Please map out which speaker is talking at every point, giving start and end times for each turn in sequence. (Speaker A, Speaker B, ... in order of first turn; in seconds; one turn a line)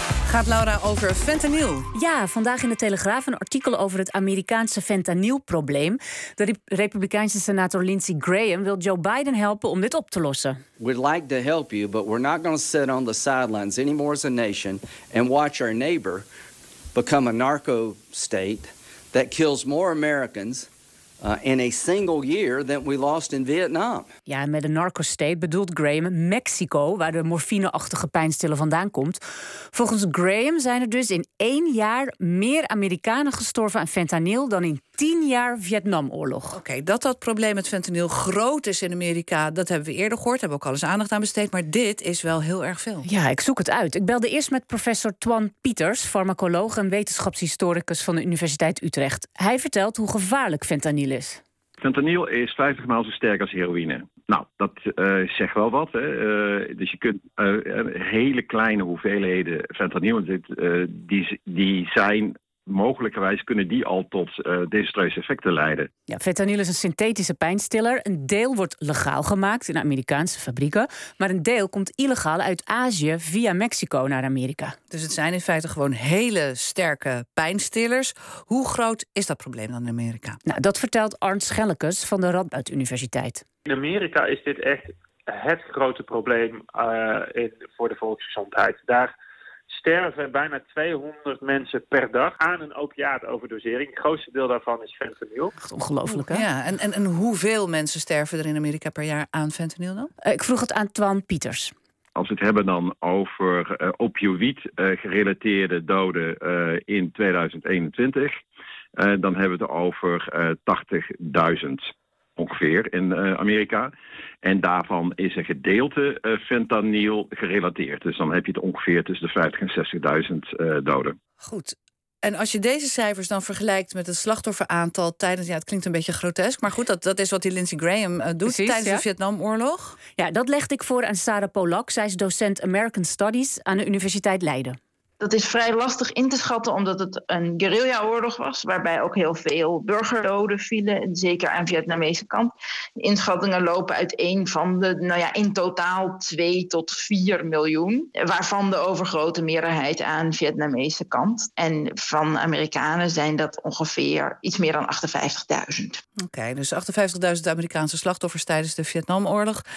Speaker A: 0.3-1.9
Speaker B: 1.9-10.6
Speaker C: 10.8-16.3
Speaker C: 16.9-20.7
Speaker C: 21.2-24.1
Speaker B: 24.3-29.2
Speaker B: 29.7-36.6
Speaker A: 36.5-43.1
Speaker B: 43.0-51.4
Speaker D: 51.8-65.9
Speaker B: 66.1-74.8
Speaker A: 74.9-80.4
Speaker B: 80.5-83.4
Speaker E: 83.7-89.1
Speaker E: 89.7-95.5
Speaker B: 95.6-96.4
Speaker A: 96.1-100.1
Speaker B: 100.2-101.7
Speaker D: 102.2-108.4
Speaker D: 109.0-113.9
Speaker D: 114.4-121.2
Speaker A: 121.4-130.0
Speaker B: 128.5-129.0
Speaker B: 130.2-134.8
Speaker F: 135.2-156.0
Speaker A: 156.2-159.6